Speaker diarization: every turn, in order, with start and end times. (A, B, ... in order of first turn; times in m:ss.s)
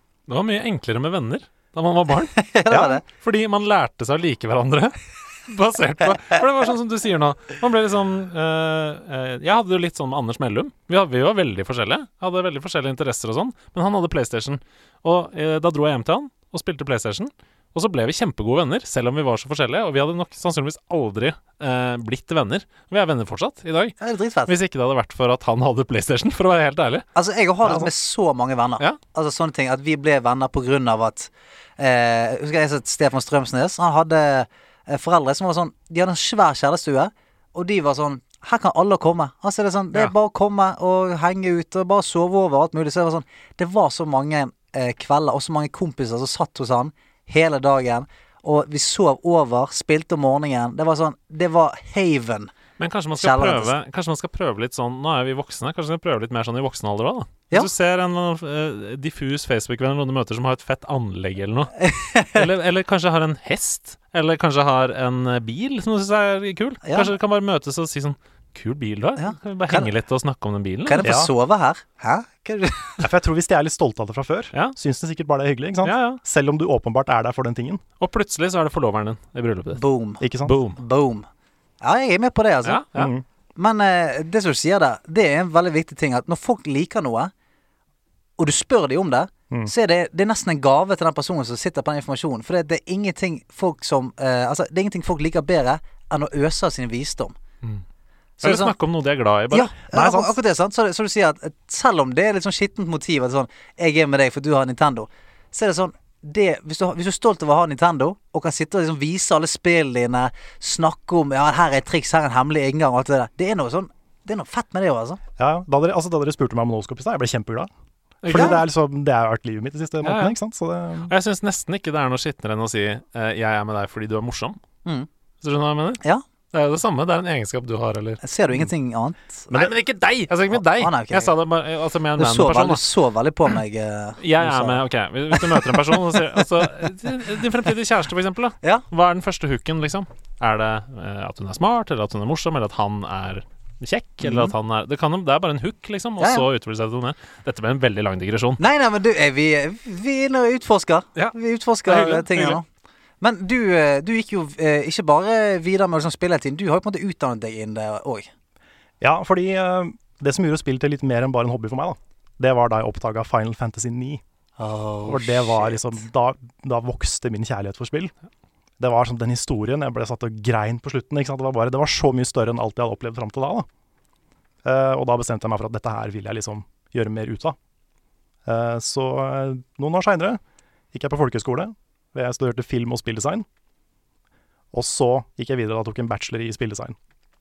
0:00.3-0:02.4 A
0:02.4-0:03.0 B
0:02.7-0:03.0 C
0:03.0-0:27.0 A
0:24.0-0:24.5 B
0:27.1-0:52.5 B
0:27.6-0:27.9 C
0:52.8-1:01.8 A
0:53.2-0:53.7 B
1:01.8-1:02.4 B
1:02.3-1:11.1 A
1:06.8-1:07.1 B
1:09.2-1:09.9 B
1:10.8-1:13.0 B
1:11.0-1:11.3 C
1:13.0-1:17.8 C
1:15.8-1:16.2 A
1:18.0-1:19.8 A
1:19.7-1:21.3 B
1:20.2-1:20.6 C
1:20.4-1:20.8 A
1:21.8-1:22.8 B
1:22.6-1:23.1 A
1:22.9-1:23.2 C
1:23.6-1:27.3 B
1:28.4-1:37.4 B
1:38.4-1:38.7 B
1:38.4-1:39.7 A
1:39.5-1:55.2 B
1:39.9-1:40.3 C
1:55.4-1:57.7 C
1:58.2-1:58.6 A
1:58.3-2:01.1 C
1:58.3-1:58.6 B
2:00.0-2:00.4 A
2:01.0-2:04.6 A
2:05.4-2:08.2 A
2:08.2-2:09.5 B
2:09.5-2:12.8 A
2:10.5-2:11.3 B
2:12.2-2:14.8 B
2:14.2-2:28.6 A
2:15.3-2:15.9 B
2:24.2-2:24.5 B
2:26.2-2:26.4 B
2:28.6-2:32.6 B
2:31.2-2:32.6 A
2:33.2-2:38.3 B
2:39.0-2:44.2 C
2:44.6-2:45.9 B
2:45.0-2:48.1 C
2:48.8-2:53.7 C
2:54.6-2:57.6 C
2:58.4-3:00.4 C
3:00.9-3:03.4 C
3:04.7-3:07.0 C